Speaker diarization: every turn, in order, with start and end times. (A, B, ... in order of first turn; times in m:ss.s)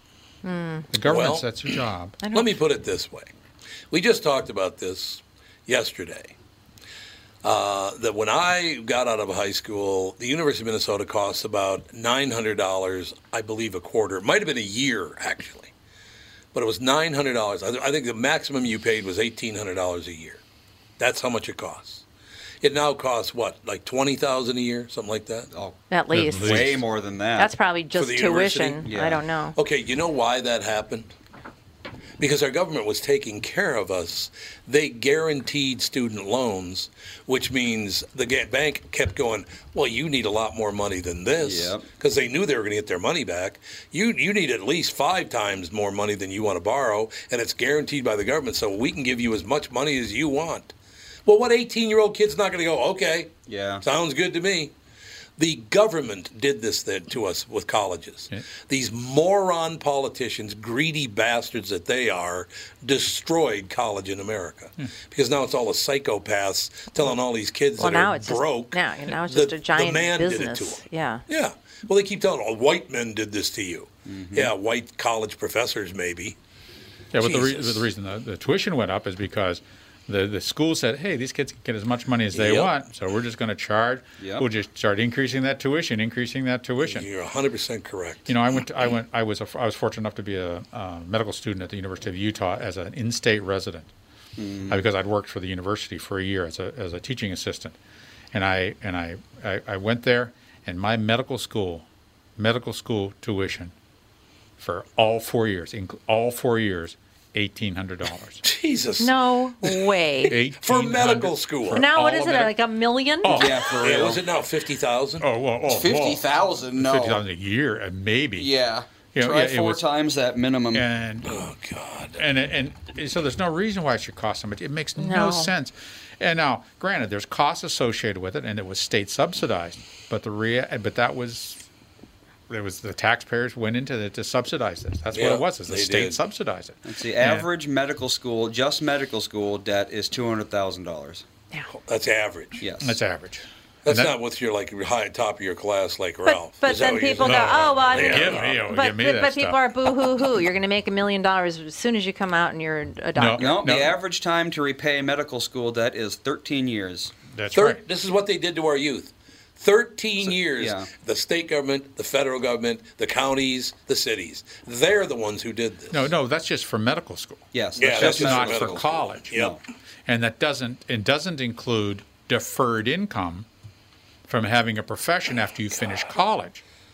0:00.4-0:00.9 A
0:00.9-0:02.2 B
0:01.0-0:01.7 C
0:02.2-0:02.5 A
0:02.3-0:03.3 C
0:03.9-0:06.3 C
0:07.4-0:15.7 C
0:16.5-0:20.4 C
0:21.0-0:22.0 C
0:22.6-0:25.5 C
0:25.5-0:27.5 D
0:25.9-0:26.8 A
0:26.1-0:26.8 B
0:27.4-0:29.6 A
0:27.9-0:28.9 C
0:28.8-0:29.2 D
0:29.6-0:31.1 C
0:32.2-0:50.7 C
0:41.4-0:41.8 D
0:51.2-0:53.3 C
0:53.5-0:53.8 D
0:53.8-0:54.7 C
0:55.4-1:16.4 C
1:07.8-1:11.2 A
1:14.0-1:14.5 D
1:17.1-1:27.1 B
1:17.1-1:17.9 C
1:22.3-1:22.8 C
1:24.2-1:24.5 D
1:26.8-1:28.3 C
1:28.3-1:33.9 B
1:34.4-1:34.8 D
1:34.7-1:37.8 B
1:38.3-1:41.8 B
1:42.4-1:43.7 B
1:44.6-1:48.4 B
1:48.4-1:52.5 C
1:49.0-1:50.4 A
1:50.3-1:51.9 B
1:51.7-1:53.4 A
1:53.2-1:53.7 B
1:53.2-1:54.2 D
1:53.7-1:55.2 C
1:55.2-1:56.2 B
1:55.6-1:57.2 D
1:56.8-1:58.5 B
1:58.4-2:00.8 D
1:59.1-1:59.8 B
2:00.7-2:01.4 B
2:01.2-2:02.2 C
2:02.1-2:11.6 B
2:05.0-2:05.5 A
2:12.5-2:17.5 B
2:15.1-2:16.2 C
2:16.8-2:21.2 D
2:21.7-2:22.6 C
2:22.6-2:23.0 D
2:22.8-2:24.1 B
2:23.8-2:28.6 C
2:26.2-2:33.6 A
2:27.2-2:29.6 B
2:33.1-2:34.0 B
2:33.4-2:37.1 D
2:37.3-2:37.8 B
2:37.5-2:46.1 C
2:40.2-2:40.9 D
2:45.9-2:49.4 B
2:47.5-2:49.6 D
2:47.8-2:49.6 C
2:50.1-2:53.5 B
2:54.3-2:56.6 B